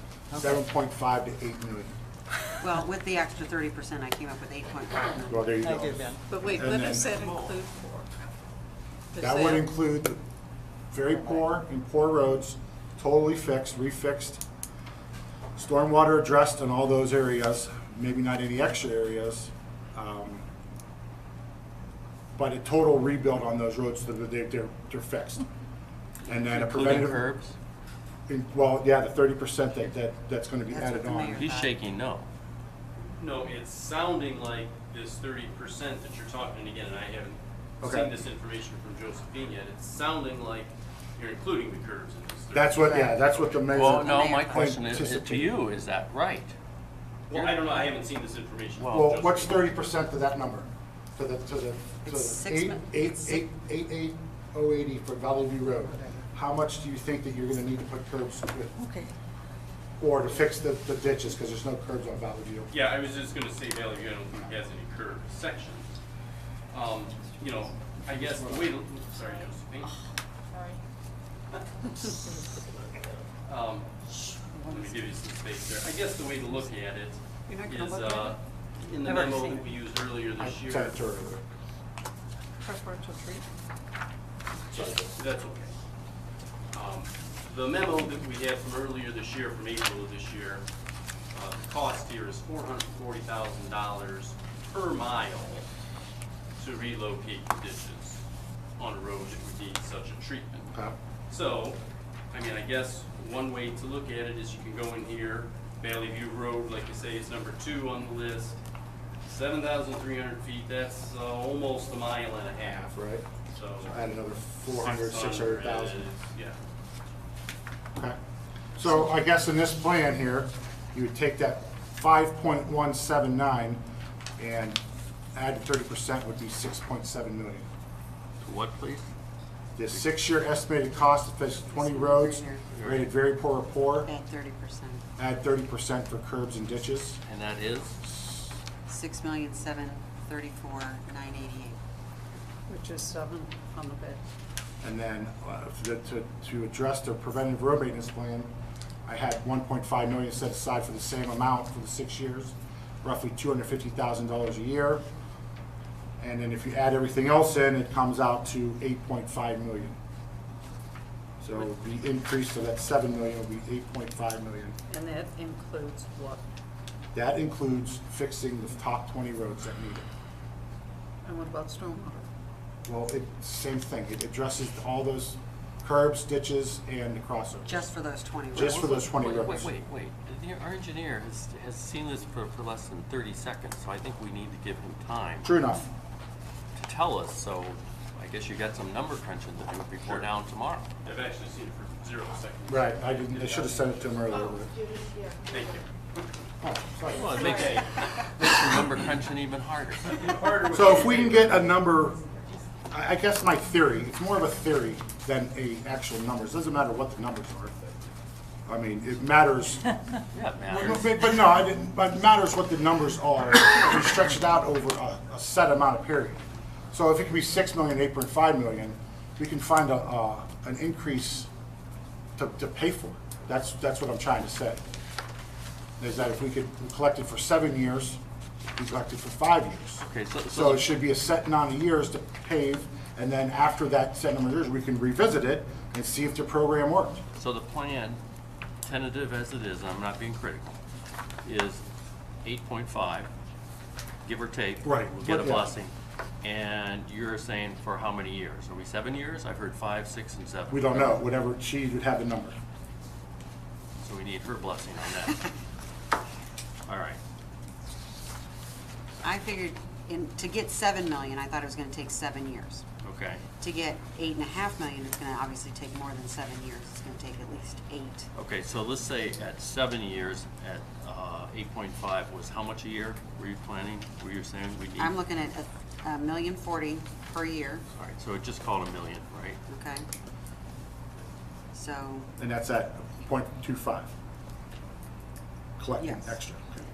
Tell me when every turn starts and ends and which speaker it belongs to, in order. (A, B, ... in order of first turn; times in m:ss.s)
0:00.3-0:00.6 A
0:00.4-0:02.0 B
0:02.6-0:05.6 C
0:05.3-0:07.2 B
0:05.6-0:06.2 A
0:06.3-0:08.1 D
0:09.1-0:09.7 D
0:09.2-0:10.2 B
0:10.9-0:14.4 B
0:15.6-0:20.5 B
0:22.4-0:25.5 B
0:26.3-0:27.3 B
0:26.3-0:27.6 E
0:28.3-0:31.4 B
0:30.7-0:31.8 C
0:31.4-0:32.3 E
0:33.2-0:43.7 F
0:37.8-0:38.1 B
0:42.5-0:45.5 B
0:42.9-0:43.1 C
0:43.7-0:46.5 E
0:43.8-0:44.8 C
0:47.3-0:49.6 F
0:47.3-0:47.6 E
0:48.8-0:49.1 E
0:48.9-0:58.8 B
0:52.0-0:53.4 C
0:58.8-0:59.1 A
1:00.0-1:02.7 B
1:02.7-1:05.9 F
1:06.7-1:10.0 F
1:13.4-1:13.9 F
1:14.5-1:15.2 A
1:14.7-1:21.0 F
1:17.5-1:18.4 D
1:19.0-1:19.7 A
1:20.4-1:21.4 B
1:22.6-1:23.4 D
1:24.7-1:25.7 F
1:26.7-1:30.6 F
1:31.3-1:35.7 F
1:36.6-1:38.2 F
1:38.8-1:40.7 F
1:41.3-1:41.8 F
1:42.3-1:48.6 F
1:49.3-1:52.9 F
1:52.6-1:53.3 B
1:53.5-1:54.0 F
1:53.8-1:56.0 B
1:54.7-1:56.6 F
1:58.8-2:03.8 B
2:04.4-2:04.8 B
2:05.3-2:07.7 B
2:08.4-2:09.1 E
2:09.8-2:14.1 B
2:11.7-2:12.7 C
2:12.7-2:13.1 E
2:14.0-2:15.0 C
2:15.2-2:17.2 B
2:17.2-2:18.0 E
2:18.9-2:21.8 C
2:22.7-2:24.2 D
2:24.8-2:28.5 B
2:29.0-2:35.0 B
2:36.2-2:40.0 B
2:41.4-2:44.8 B
2:44.9-2:46.4 D
2:47.1-2:50.1 B
2:51.2-2:52.3 D
2:52.9-2:57.9 B
2:57.7-2:59.0 C
2:58.5-2:59.8 B
2:58.6-3:05.5 E
3:05.4-3:05.9 B
3:06.8-3:10.9 E
3:10.0-3:10.3 F
3:11.0-3:14.5 F
3:12.7-3:14.7 B
3:15.5-3:16.2 F
3:16.6-3:17.8 B
3:17.1-3:20.3 E
3:17.4-3:17.9 F
3:20.1-3:21.7 F
3:20.7-3:22.3 B
3:22.9-3:28.0 B
3:28.7-3:30.0 B
3:30.3-3:31.2 E
3:30.7-3:41.5 B
3:42.4-3:44.8 B
3:46.0-3:48.2 B
3:48.8-3:57.2 B
3:50.0-3:51.0 E
3:57.4-3:58.2 E
3:58.8-4:00.8 E
4:01.4-4:01.8 E
4:02.4-4:03.3 E
4:04.2-4:11.2 E
4:04.8-4:05.7 B
4:10.7-4:12.6 B
4:14.0-4:15.5 E
4:16.9-4:17.2 E
4:19.2-4:22.8 C
4:23.0-4:23.4 E
4:23.6-4:28.3 C
4:28.4-4:35.2 E
4:35.0-4:37.8 C
4:38.0-4:39.6 E
4:39.7-4:40.1 C
4:41.7-4:42.3 C
4:42.4-4:44.1 B
4:45.8-4:46.8 B
4:46.0-4:46.4 C